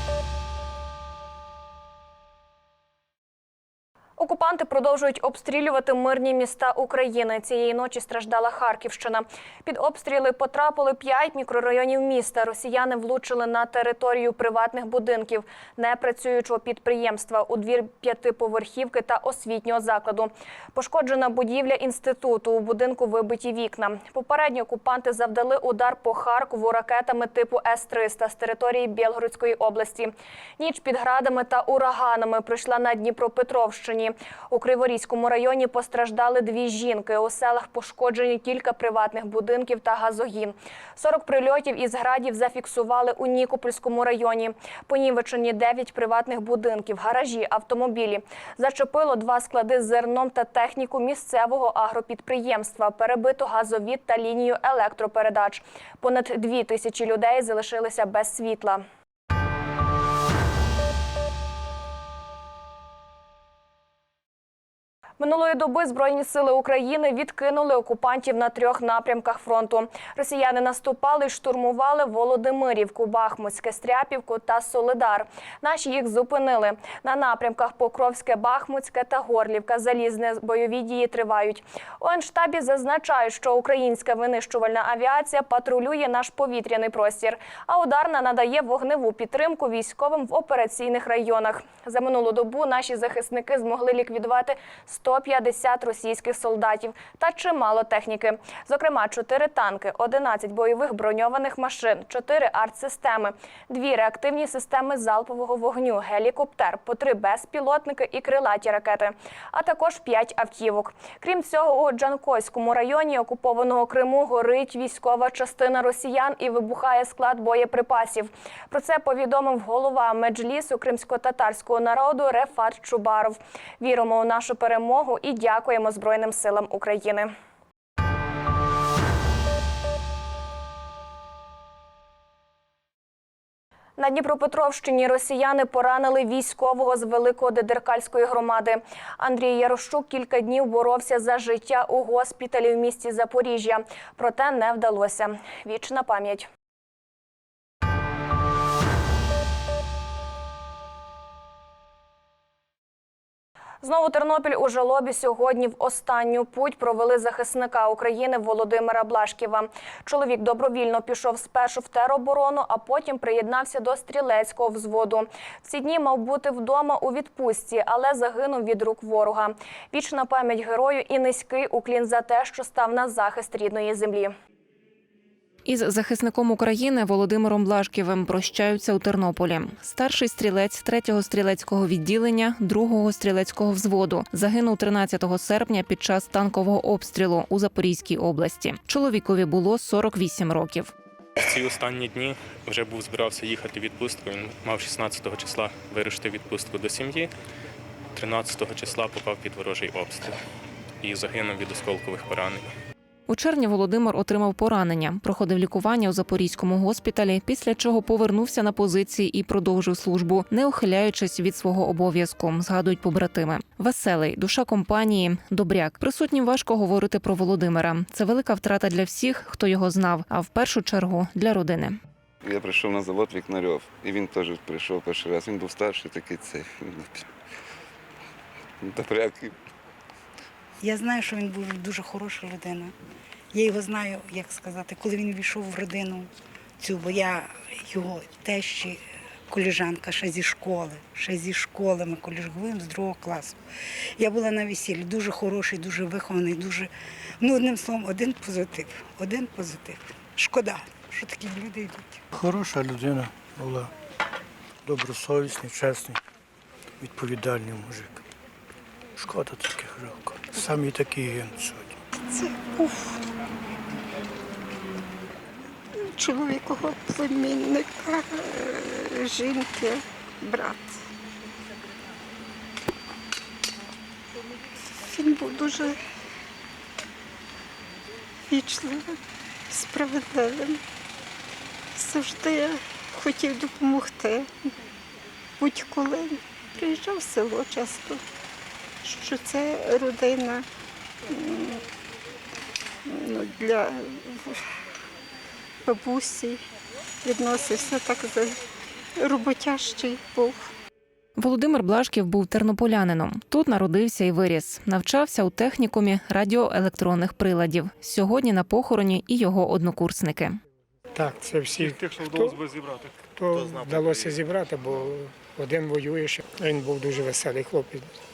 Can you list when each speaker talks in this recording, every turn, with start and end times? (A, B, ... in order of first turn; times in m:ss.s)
0:04.2-0:58.8 A
1:05.2-2:07.3 A
2:14.0-2:26.5 A
2:33.8-2:54.3 A
2:55.6-3:10.9 B
3:11.4-3:17.3 C
3:18.1-3:20.4 C
3:21.0-3:22.7 C
3:23.3-3:42.0 B
3:42.4-3:47.2 D
3:48.8-3:49.5 D
3:50.8-3:52.9 E
3:53.5-4:03.6 E
4:04.2-4:06.9 E
4:07.4-4:12.2 E
4:12.4-4:13.9 F
4:14.9-4:16.1 F
4:17.2-4:18.0 F
4:20.3-4:21.7 F
4:22.3-4:23.2 G
4:26.1-4:31.0 G
4:35.0-4:36.0 G
4:38.5-4:39.2 G
4:39.7-4:40.8 G
4:41.9-4:44.5 G
4:45.6-4:48.2 G
4:49.0-4:50.6 G
4:51.3-4:51.8 G
4:53.1-4:54.6 G
4:55.8-4:56.6 G
4:57.2-4:58.6 G
4:59.2-5:00.7 G
5:01.4-5:10.6 B
5:11.1-5:12.6 H
5:11.8-5:14.4 I
5:13.3-5:18.1 H